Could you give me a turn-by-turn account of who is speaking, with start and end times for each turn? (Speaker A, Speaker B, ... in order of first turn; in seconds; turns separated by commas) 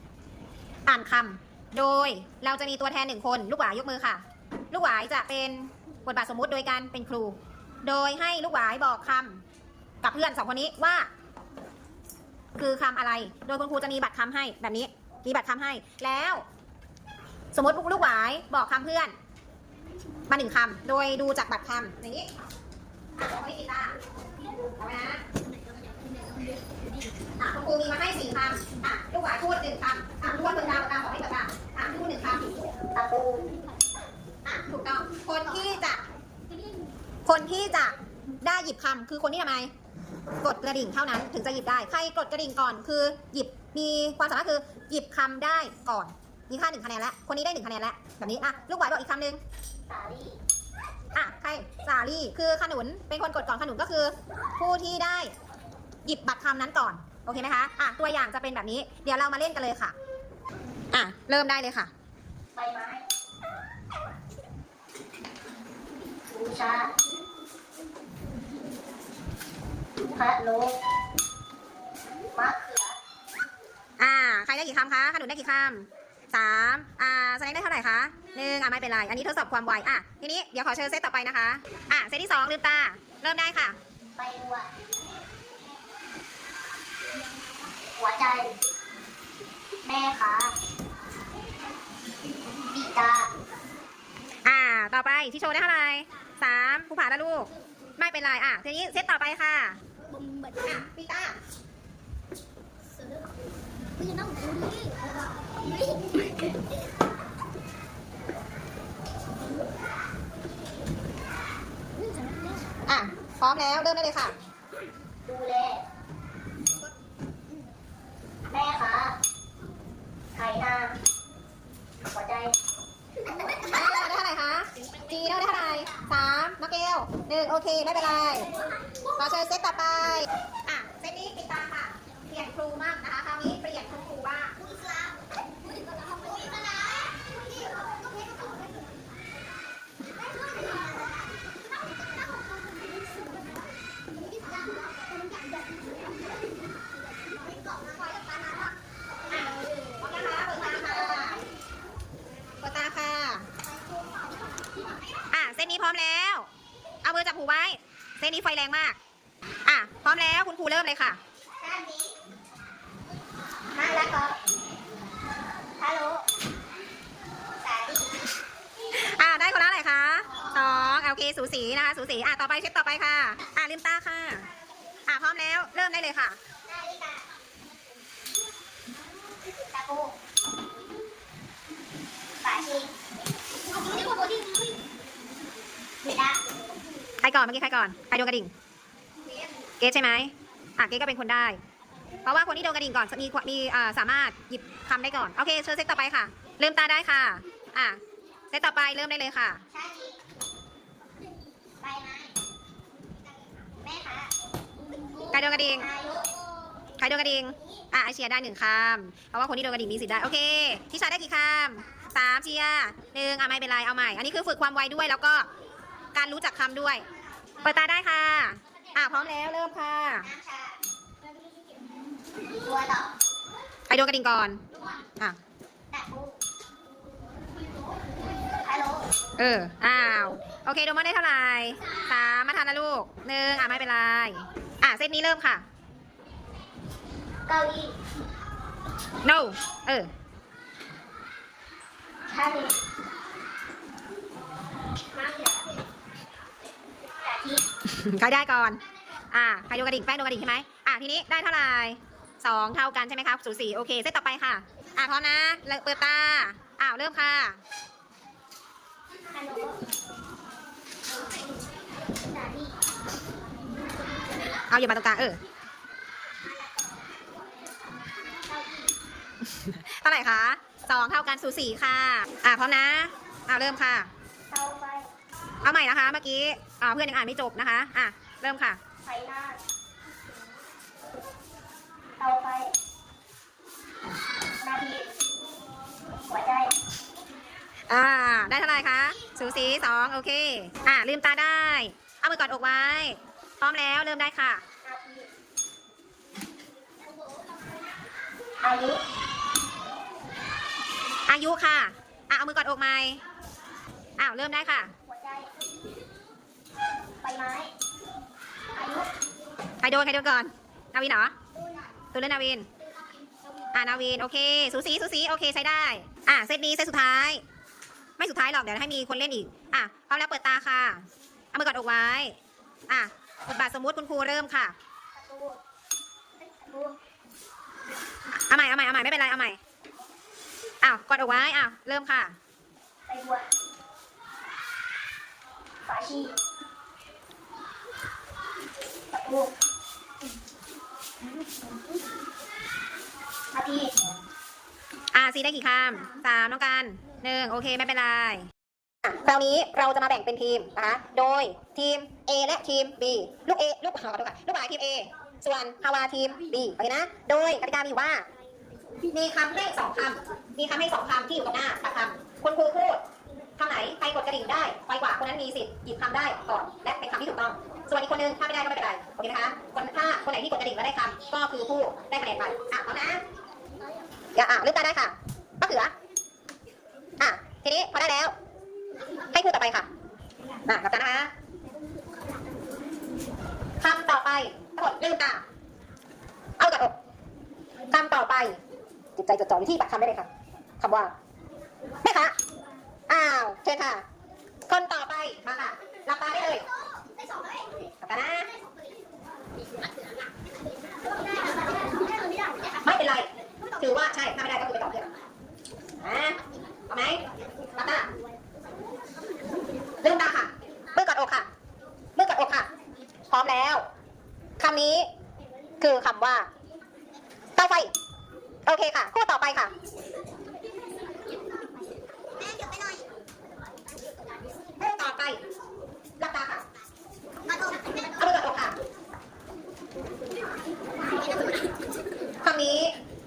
Speaker A: 0.9-9.4, Speaker A: 10.0-11.1, Speaker A: 12.6-16.4, Speaker A: 17.5-19.1, Speaker A: 20.3-22.3, Speaker A: 23.2-24.0, Speaker A: 24.8-25.2, Speaker A: 27.4-32.5, Speaker B: 33.0-33.5, Speaker A: 34.5-36.0, Speaker A: 37.3-39.7, Speaker A: 40.4-49.4, Speaker B: 49.9-50.4, Speaker A: 51.1-55.3, Speaker A: 56.0-60.0, Speaker A: 60.9-61.9, Speaker B: 62.6-63.0, Speaker B: 66.3-66.9, Speaker B: 70.1-70.8, Speaker B: 72.3-73.0, Speaker A: 74.0-83.8, Speaker B: 84.2-84.7, Speaker B: 87.9-88.5, Speaker B: 89.8-90.5, Speaker B: 92.7-93.3, Speaker A: 94.5-99.8, Speaker A: 100.6-101.4, Speaker A: 112.9-114.4, Speaker B: 115.3-115.8, Speaker B: 118.5-119.2, Speaker B: 120.3-121.0, Speaker B: 122.1-122.5, Speaker A: 123.6-128.5, Speaker A: 129.2-134.6, Speaker B: 134.7-135.2, Speaker B: 136.3-137.0, Speaker B: 148.0-148.6, Speaker A: 149.3-151.5, Speaker A: 152.6-153.5, Speaker A: 155.3-156.5, Speaker A: 157.0-159.0, Speaker A: 159.7-161.2, Speaker B: 161.6-162.2, Speaker B: 163.7-164.4, Speaker B: 165.8-166.2, Speaker B: 167.6-168.1, Speaker A: 168.9-174.5, Speaker A: 175.1-176.4, Speaker B: 176.7-177.2, Speaker B: 179.5-180.1, Speaker B: 182.4-182.9, Speaker B: 183.9-184.5, Speaker B: 186.0-186.4, Speaker A: 187.2-188.5, Speaker A: 189.8-191.6, Speaker A: 192.2-198.0, Speaker A: 198.5-199.6, Speaker B: 199.7-200.2, Speaker B: 201.8-202.3, Speaker B: 203.8-204.3, Speaker A: 205.3-205.9, Speaker B: 205.7-206.3, Speaker A: 207.0-215.5, Speaker A: 216.1-217.1, Speaker A: 217.6-220.3, Speaker B: 220.2-220.8, Speaker B: 222.5-223.1, Speaker A: 223.9-224.6, Speaker B: 225.9-226.4, Speaker B: 228.6-229.1, Speaker A: 229.4-235.6, Speaker B: 237.5-237.9, Speaker A: 239.2-240.1, Speaker B: 242.3-242.7, Speaker B: 245.2-245.5, Speaker B: 247.2-247.6, Speaker A: 247.8-248.8, Speaker A: 249.3-257.6, Speaker B: 259.3-259.8, Speaker B: 262.2-262.8, Speaker A: 264.7-265.4, Speaker B: 266.6-267.0, Speaker B: 268.3-268.9, Speaker A: 269.4-274.1, Speaker B: 274.5-275.1, Speaker A: 275.6-278.8, Speaker B: 279.1-279.6, Speaker B: 282.2-282.7, Speaker B: 284.6-285.1, Speaker B: 286.3-286.7, Speaker A: 287.9-294.6, Speaker B: 294.8-295.3, Speaker B: 298.6-299.0, Speaker A: 301.3-303.2, Speaker A: 304.2-304.9, Speaker B: 305.1-305.5, Speaker B: 307.2-307.7, Speaker B: 308.7-309.1, Speaker A: 309.8-311.3, Speaker A: 312.1-312.7, Speaker A: 313.7-317.4, Speaker A: 318.2-322.4, Speaker A: 322.9-324.8, Speaker B: 325.2-325.6, Speaker B: 326.4-327.0, Speaker A: 328.5-329.6, Speaker A: 330.8-332.4, Speaker B: 333.1-333.5, Speaker B: 335.9-336.3, Speaker B: 339.1-339.5, Speaker B: 343.5-344.1, Speaker A: 345.1-348.5, Speaker A: 349.0-358.3, Speaker A: 359.1-363.0, Speaker A: 363.6-373.2, Speaker A: 374.4-375.9, Speaker A: 377.2-378.3, Speaker A: 379.3-379.9, Speaker A: 380.7-381.3, Speaker A: 383.8-385.4, Speaker A: 386.6-387.0, Speaker A: 387.9-388.6, Speaker A: 389.2-390.3, Speaker A: 390.8-391.1, Speaker A: 392.0-392.4, Speaker A: 393.1-394.0, Speaker A: 394.7-396.7, Speaker A: 398.0-398.5, Speaker A: 402.8-405.1, Speaker A: 406.0-406.4, Speaker A: 406.9-407.2, Speaker A: 407.8-408.1, Speaker A: 410.0-411.5, Speaker A: 412.2-412.7, Speaker A: 413.3-413.9, Speaker A: 414.6-415.1, Speaker A: 415.8-416.5, Speaker A: 417.6-417.9, Speaker A: 418.7-419.7, Speaker B: 422.4-423.0, Speaker A: 424.8-425.4, Speaker A: 426.2-426.6, Speaker A: 428.0-428.8, Speaker A: 432.4-432.9